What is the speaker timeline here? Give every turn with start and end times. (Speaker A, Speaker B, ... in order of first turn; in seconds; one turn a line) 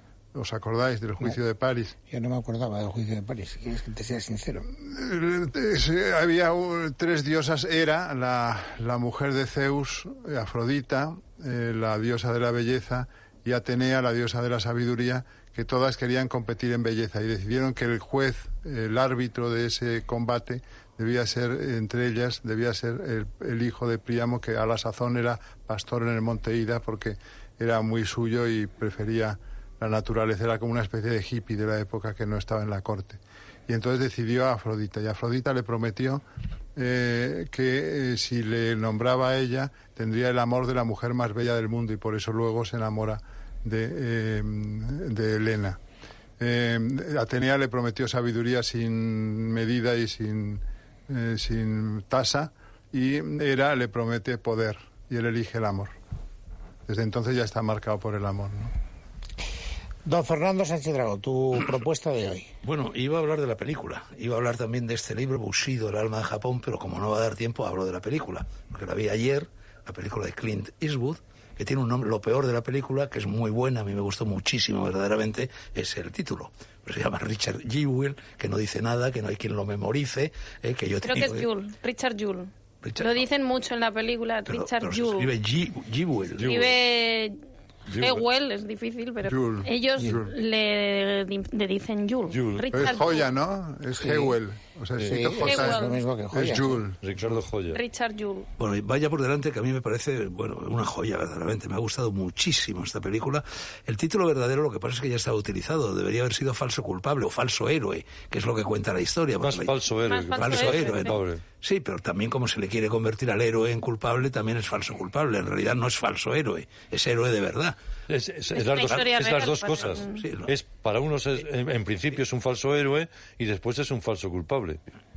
Speaker A: 0.3-1.9
Speaker B: 2.1-4.7
Speaker A: 4.7-36.2
Speaker A: 36.8-45.8
Speaker A: 46.4-55.9
Speaker A: 56.9-58.7
Speaker B: 60.0-62.5
Speaker C: 62.6-81.5
Speaker D: 81.0-85.3
Speaker C: 82.8-83.2
Speaker C: 84.5-86.5
Speaker E: 86.4-86.7
Speaker D: 86.4-93.3
Speaker E: 87.9-88.2
Speaker A: 89.3-90.3
Speaker E: 92.3-93.0
Speaker A: 92.7-97.0
Speaker B: 94.0-94.3
Speaker B: 95.0-96.8
Speaker D: 95.4-96.0
Speaker E: 97.0-97.8
Speaker D: 97.7-98.5
Speaker C: 98.6-109.7
Speaker E: 109.4-111.4
Speaker D: 110.0-111.2
Speaker C: 110.4-117.8
Speaker E: 118.1-124.8
Speaker D: 118.5-120.2
Speaker C: 119.8-120.5